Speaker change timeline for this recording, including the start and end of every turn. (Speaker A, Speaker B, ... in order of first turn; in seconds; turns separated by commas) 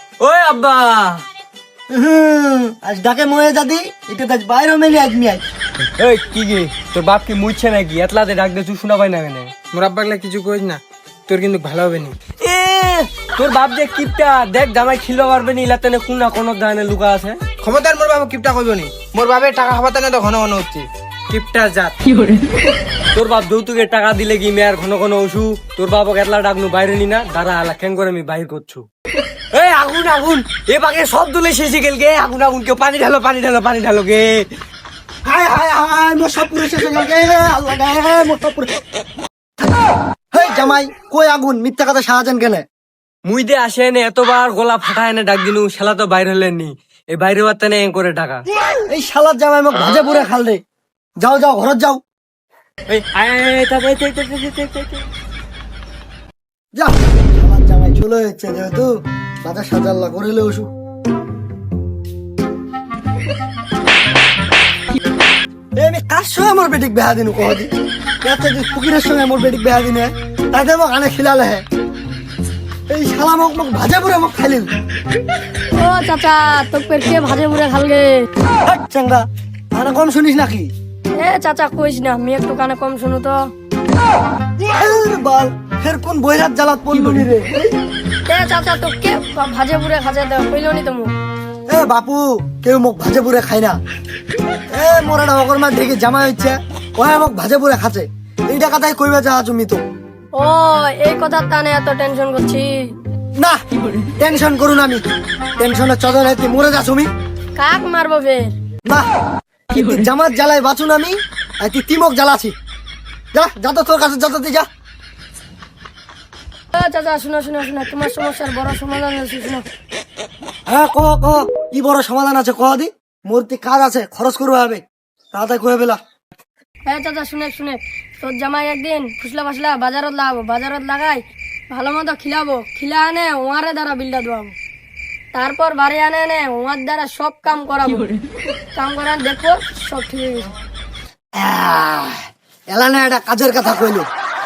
Speaker A: 0.2-1.2, Speaker B: 1.9-5.4, Speaker A: 6.0-9.5, Speaker C: 9.7-12.2, Speaker A: 12.4-17.4, Speaker C: 17.6-20.9, Speaker A: 21.3-21.9, Speaker A: 23.2-28.9, Speaker A: 29.5-34.5, Speaker B: 35.2-38.7, Speaker B: 39.6-42.6, Speaker A: 43.3-48.4, Speaker B: 48.9-50.6, Speaker B: 51.2-52.0, Speaker A: 52.9-55.1, Speaker B: 56.8-58.9, Speaker B: 59.4-60.7, Speaker B: 65.8-71.6, Speaker B: 72.9-74.7, Speaker D: 75.8-78.2, Speaker B: 78.7-79.2, Speaker B: 79.8-80.7, Speaker D: 81.2-83.4, Speaker B: 84.7-87.8, Speaker D: 88.3-91.1, Speaker B: 91.7-93.8, Speaker B: 94.7-99.8, Speaker D: 100.4-102.9, Speaker B: 103.4-105.0, Speaker B: 105.6-107.1, Speaker D: 107.6-108.6, Speaker B: 109.7-112.5, Speaker B: 113.3-114.7, Speaker D: 116.7-119.6, Speaker B: 120.7-126.0, Speaker D: 126.9-134.6, Speaker D: 135.3-138.0, Speaker D: 138.8-140.5, Speaker B: 141.4-144.1